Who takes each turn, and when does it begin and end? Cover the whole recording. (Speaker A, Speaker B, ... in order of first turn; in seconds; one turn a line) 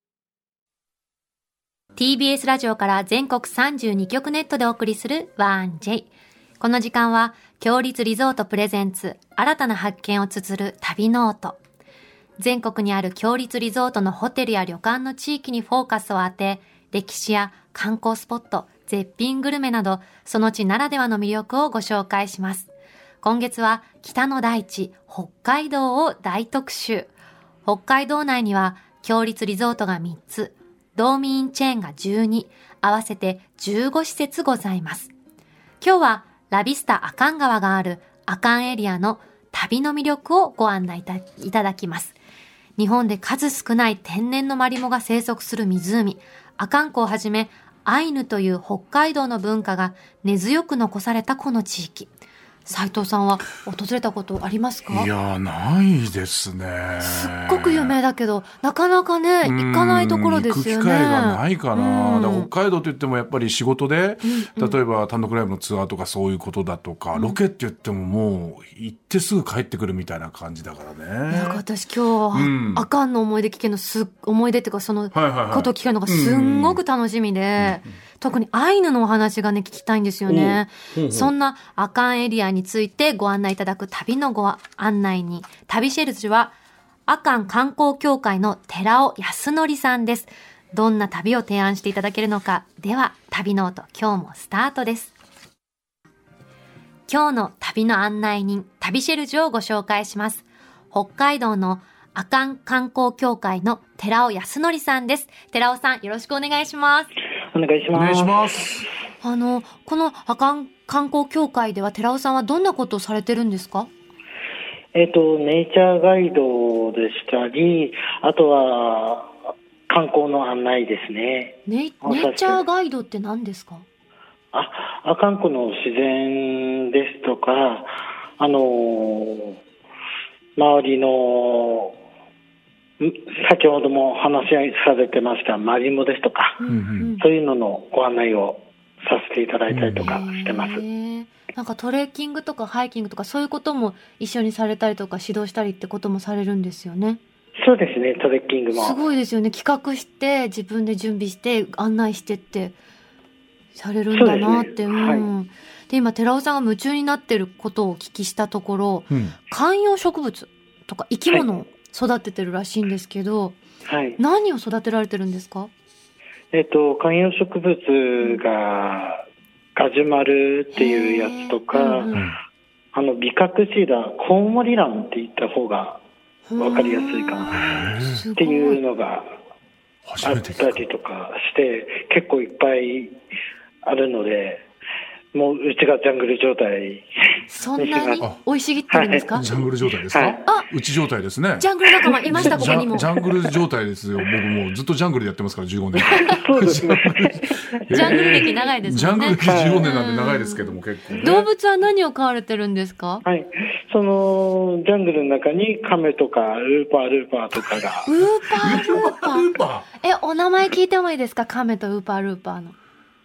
Speaker A: 2.0-11.6
Speaker A: 12.4-22.7
Speaker A: 23.2-27.1
Speaker A: 27.7-35.1
Speaker A: 35.8-42.2
Speaker A: 42.8-52.1
Speaker A: 52.7-55.1
Speaker B: 54.9-57.9
Speaker A: 57.0-62.5
Speaker B: 59.4-71.6
Speaker A: 64.2-64.8
Speaker A: 71.3-86.6
Speaker B: 72.3-72.9
Speaker B: 75.1-76.8
Speaker B: 77.6-77.8
Speaker B: 80.3-81.3
Speaker A: 87.1-95.1
Speaker A: 97.1-107.1
Speaker C: 107.5-108.5
Speaker B: 107.9-108.9
Speaker A: 109.2-113.9
Speaker C: 114.9-119.3
Speaker C: 119.9-122.6
Speaker A: 121.7-123.9
Speaker C: 124.5-129.6
Speaker C: 130.6-132.0
Speaker C: 133.0-136.6
Speaker A: 136.6-137.2
Speaker B: 136.7-137.1
Speaker C: 137.2-140.8
Speaker B: 139.7-140.1
Speaker A: 140.0-147.2
Speaker C: 147.6-149.0
Speaker A: 148.7-152.8
Speaker A: 153.8-163.6
Speaker C: 154.1-155.3
Speaker B: 159.1-159.4
Speaker C: 163.8-164.2
Speaker A: 164.2-165.7
Speaker C: 166.5-169.2
Speaker C: 169.8-172.2
Speaker A: 170.7-172.2
Speaker B: 172.1-172.4
Speaker C: 172.9-176.0
Speaker A: 176.5-178.8
Speaker C: 176.6-177.8
Speaker B: 177.5-178.2
Speaker C: 178.3-179.3
Speaker B: 180.1-180.8
Speaker C: 180.2-183.2
Speaker C: 183.8-184.6
Speaker C: 185.3-187.1
Speaker A: 187.5-189.5
Speaker C: 187.8-188.3
Speaker C: 188.9-190.4
Speaker B: 189.3-191.7
Speaker A: 191.6-193.2
Speaker C: 192.3-193.3
Speaker B: 192.3-201.4
Speaker C: 196.2-198.5
Speaker A: 197.9-203.2
Speaker C: 199.4-199.9
Speaker C: 203.2-208.1
Speaker A: 208.1-212.8
Speaker B: 208.6-209.9